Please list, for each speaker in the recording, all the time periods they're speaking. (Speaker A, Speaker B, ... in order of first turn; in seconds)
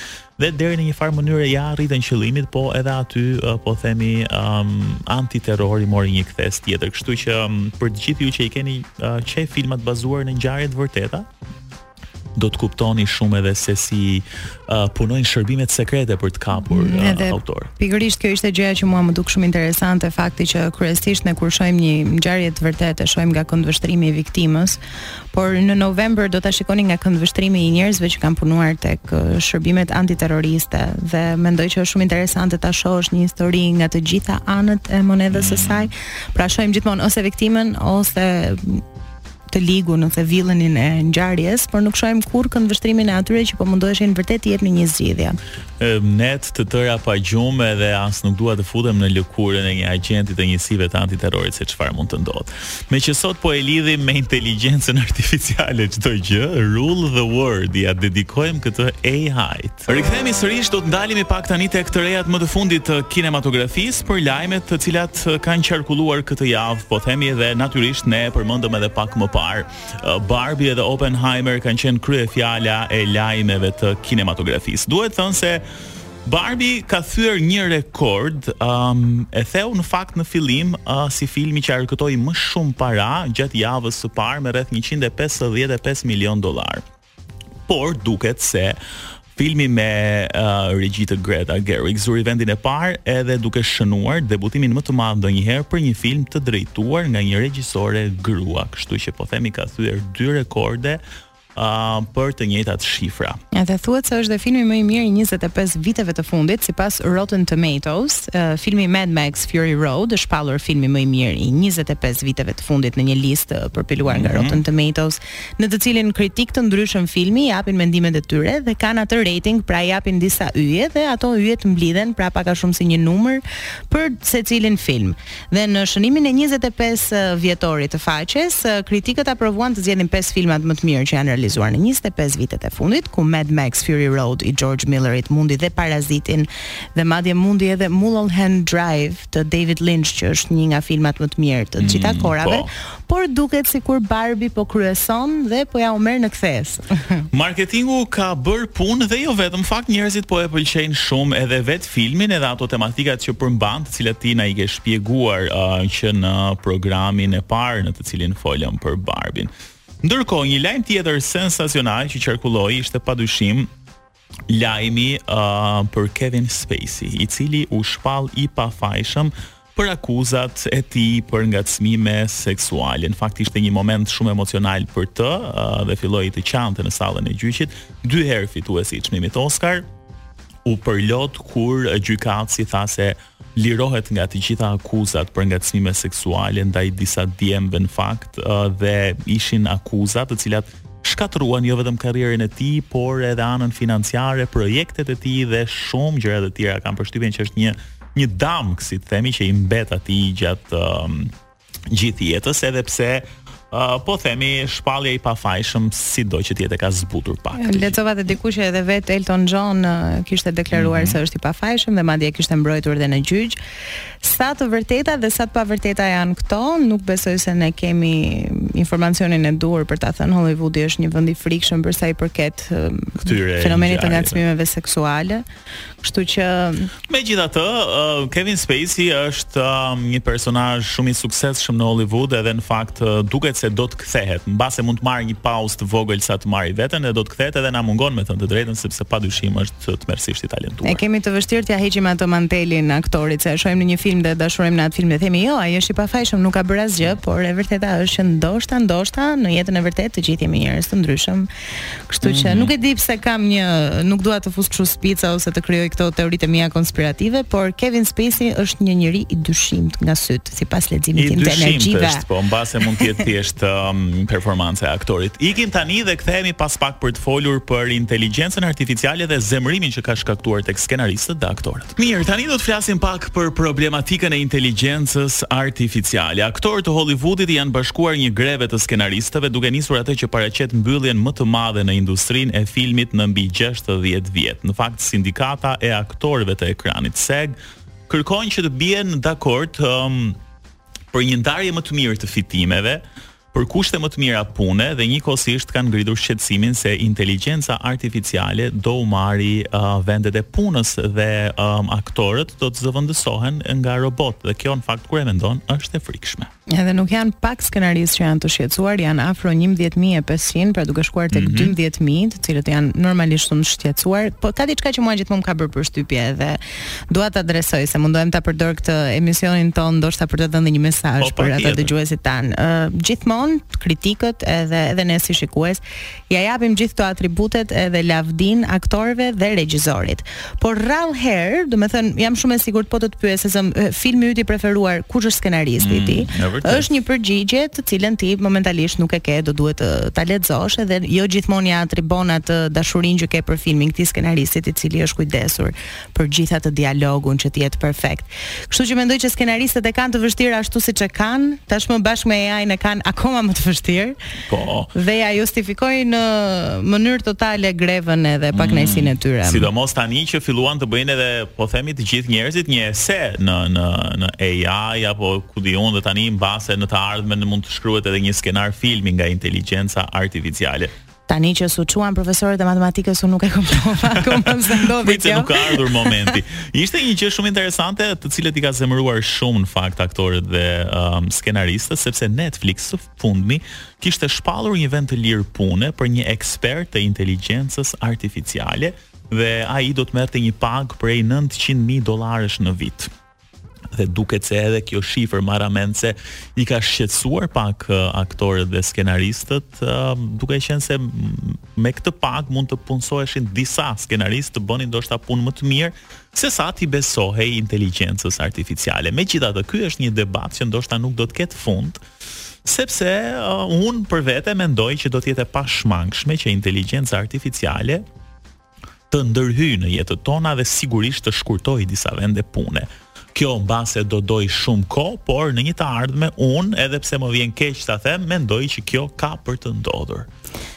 Speaker A: 0.4-11.3, 12.3-17.7, 35.3-35.9, 45.8-75.6, 76.2-86.8, 87.7-88.8, 89.3-101.0, 101.5-103.4, 114.0-114.6, 141.8-142.7, 147.3-159.5, 160.0-163.7, 164.5-179.8, 180.6-201.3, 201.9-208.0, 210.7-211.2, 223.2-224.4, 227.1-241.0, 252.2-252.7, 261.1-287.6, 288.1-290.4, 291.1-306.5, 311.3-311.8, 321.2-321.9, 335.8-336.9, 354.5-354.9, 358.5-370.9, 375.0-393.1, 393.9-412.0, 412.6-418.0, 419.1-430.3
Speaker B: 16.7-24.8, 25.3-38.8, 39.5-45.4, 103.5-146.8, 207.5-213.6, 214.2-225.4, 226.0-226.9, 240.8-251.5, 252.1-262.2, 306.7-354.1, 354.9-359.7, 371.3-376.4